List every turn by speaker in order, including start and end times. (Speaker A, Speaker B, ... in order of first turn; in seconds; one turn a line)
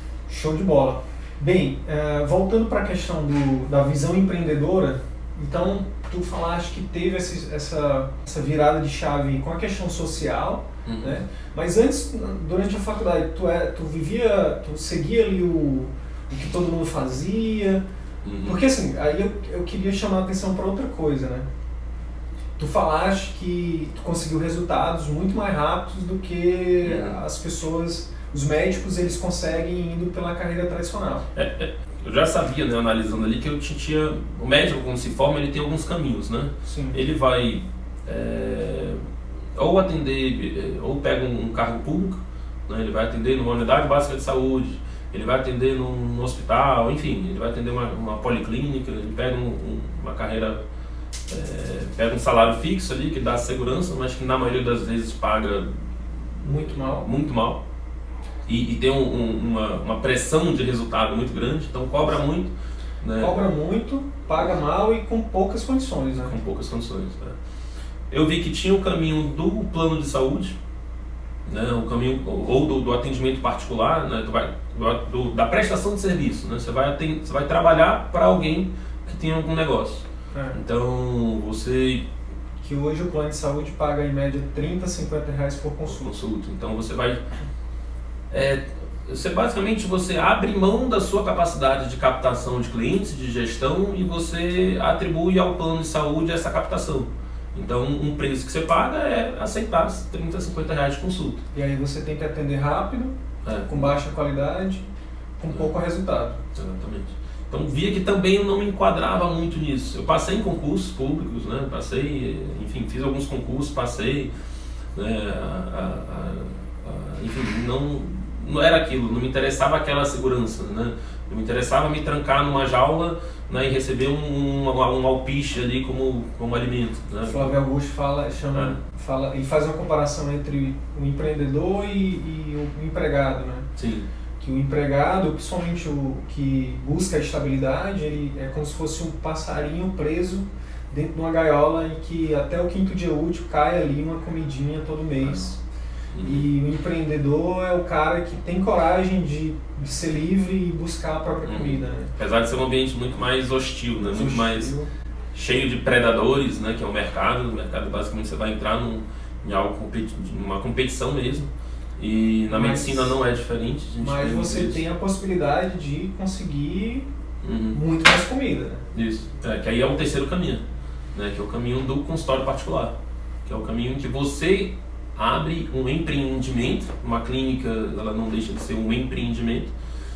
Speaker A: 0.3-17.8
Speaker B: 10.8-11.2
Speaker B: 18.2-18.6
Speaker A: 18.4-21.5
Speaker A: 22.6-31.3
Speaker B: 26.8-27.2
Speaker B: 31.3-39.0
Speaker A: 36.6-37.0
Speaker B: 39.6-50.6
Speaker B: 51.3-57.6
Speaker A: 56.4-57.1
Speaker B: 58.5-63.4
Speaker A: 63.2-66.4
Speaker B: 66.1-67.4
Speaker B: 68.1-70.6
Speaker B: 71.5-82.1
Speaker A: 80.3-80.6
Speaker A: 82.6-86.1
Speaker B: 85.9-87.2
Speaker B: 88.3-101.4
Speaker A: 101.5-104.9
Speaker B: 103.4-103.9
Speaker A: 105.4-106.4
Speaker B: 106.6-114.3
Speaker B: 114.9-127.5
Speaker A: 127.2-133.7
Speaker B: 133.8-134.1
Speaker A: 134.4-145.6
Speaker B: 146.1-146.5
Speaker A: 146.2-152.1
Speaker B: 151.4-154.7
Speaker A: 154.1-154.9
Speaker B: 155.3-164.8
Speaker A: 162.5-163.2
Speaker A: 164.0-167.1
Speaker B: 167.4-167.8
Speaker A: 167.7-168.9
Speaker B: 168.9-170.6
Speaker B: 171.1-179.7